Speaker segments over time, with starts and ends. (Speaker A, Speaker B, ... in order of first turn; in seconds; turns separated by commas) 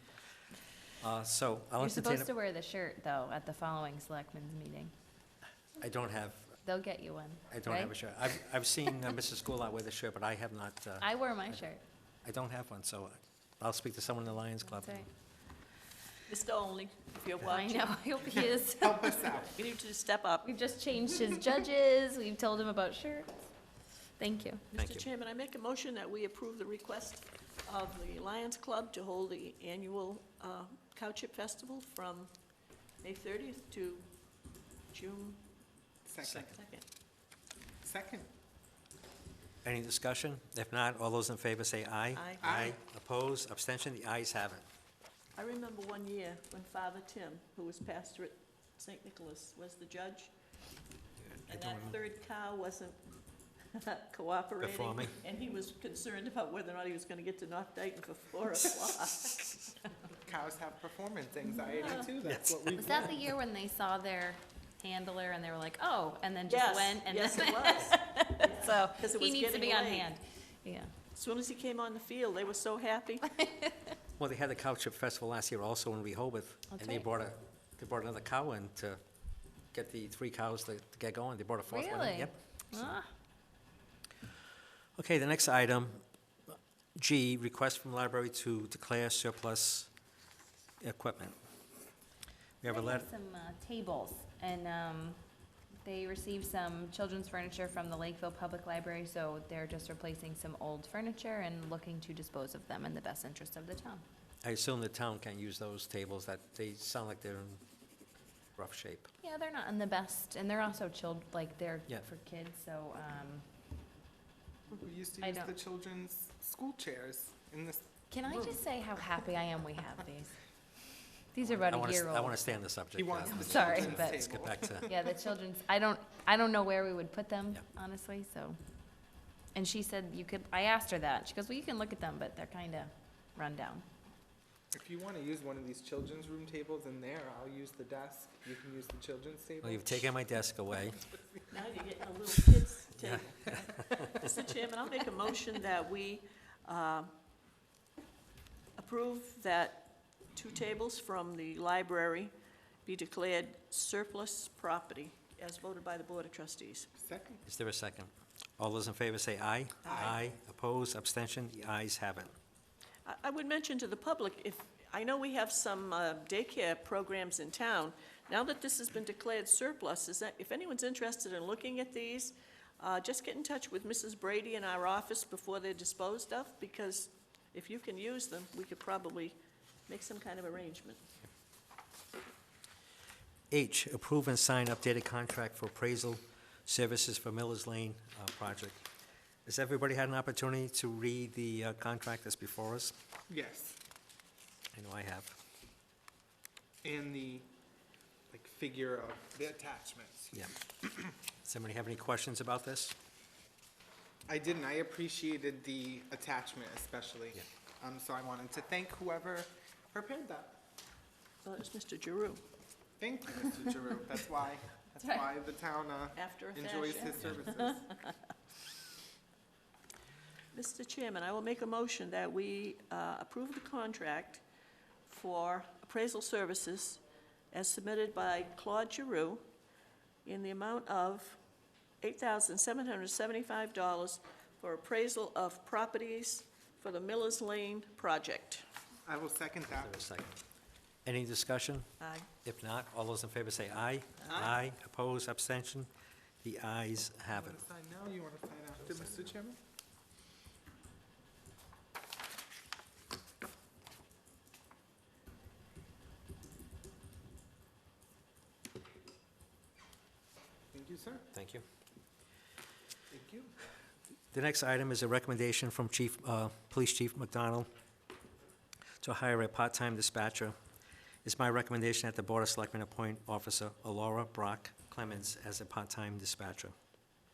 Speaker A: 1.0-2.3, Speaker B: 1.8-4.9, Speaker A: 5.8-6.5, Speaker B: 6.6-7.9, Speaker A: 7.5-11.7, Speaker B: 11.0-11.8, Speaker A: 12.2-15.1, Speaker B: 14.7-15.0, Speaker C: 16.3-18.5, Speaker B: 17.4-19.3, Speaker D: 18.4-19.5, Speaker C: 19.2-20.5, Speaker B: 20.4-23.5, Speaker B: 24.2-24.7, Speaker C: 24.7-32.3, Speaker A: 24.7-25.1, Speaker C: 33.0-34.1, Speaker C: 34.9-35.4, Speaker D: 36.0-36.6, Speaker A: 36.2-36.5, Speaker C: 36.5-36.8, Speaker D: 37.8-38.3, Speaker A: 39.6-44.6, Speaker C: 42.1-42.5, Speaker D: 42.4-42.8, Speaker C: 45.4-50.3, Speaker A: 51.2-52.0, Speaker C: 51.5-53.0, Speaker C: 53.7-59.6, Speaker A: 54.6-55.2, Speaker D: 60.2-63.2, Speaker C: 61.8-62.1, Speaker A: 62.2-63.1, Speaker B: 62.8-70.9, Speaker C: 66.5-70.1, Speaker C: 71.1-73.3, Speaker B: 73.3-73.9, Speaker A: 74.2-79.0, Speaker B: 76.7-77.0, Speaker A: 79.7-83.0, Speaker B: 81.7-83.1, Speaker A: 85.0-89.9, Speaker A: 90.8-91.4, Speaker A: 92.6-93.1, Speaker B: 92.6-95.2, Speaker B: 95.8-104.0, Speaker A: 104.4-107.6, Speaker A: 108.6-109.1, Speaker B: 109.2-113.4, Speaker D: 114.7-119.0, Speaker B: 115.2-115.5, Speaker B: 118.1-120.4, Speaker B: 121.3-122.5, Speaker A: 121.6-124.9, Speaker D: 122.9-125.0, Speaker B: 123.3-124.2, Speaker B: 124.8-128.6, Speaker B: 129.5-133.8, Speaker D: 134.7-140.1, Speaker A: 139.6-141.0, Speaker C: 141.5-147.1, Speaker A: 143.0-144.1, Speaker C: 148.8-152.3, Speaker C: 152.8-156.9, Speaker D: 156.9-157.4, Speaker A: 157.4-162.3, Speaker C: 159.8-160.2, Speaker D: 159.9-160.2, Speaker C: 163.0-179.4, Speaker C: 179.9-181.1, Speaker A: 183.5-188.8, Speaker A: 189.4-192.9, Speaker D: 193.3-193.8, Speaker A: 194.7-195.3, Speaker D: 196.8-197.5, Speaker D: 198.3-200.5, Speaker A: 201.4-202.9, Speaker D: 204.3-210.6, Speaker C: 211.4-212.4, Speaker D: 213.0-217.9, Speaker C: 216.1-218.0, Speaker C: 220.5-224.4, Speaker C: 225.1-227.0, Speaker C: 227.5-229.4, Speaker C: 230.2-231.4, Speaker C: 232.0-238.6, Speaker D: 239.1-240.0, Speaker A: 239.7-240.4, Speaker A: 241.0-241.9, Speaker C: 242.0-242.3, Speaker A: 242.4-245.9, Speaker D: 244.3-244.6, Speaker A: 246.4-247.6, Speaker D: 247.3-249.6, Speaker A: 248.8-249.3, Speaker D: 260.7-261.3, Speaker A: 261.3-261.6, Speaker D: 263.1-263.5, Speaker A: 264.3-267.7, Speaker A: 269.0-270.5, Speaker A: 271.2-276.7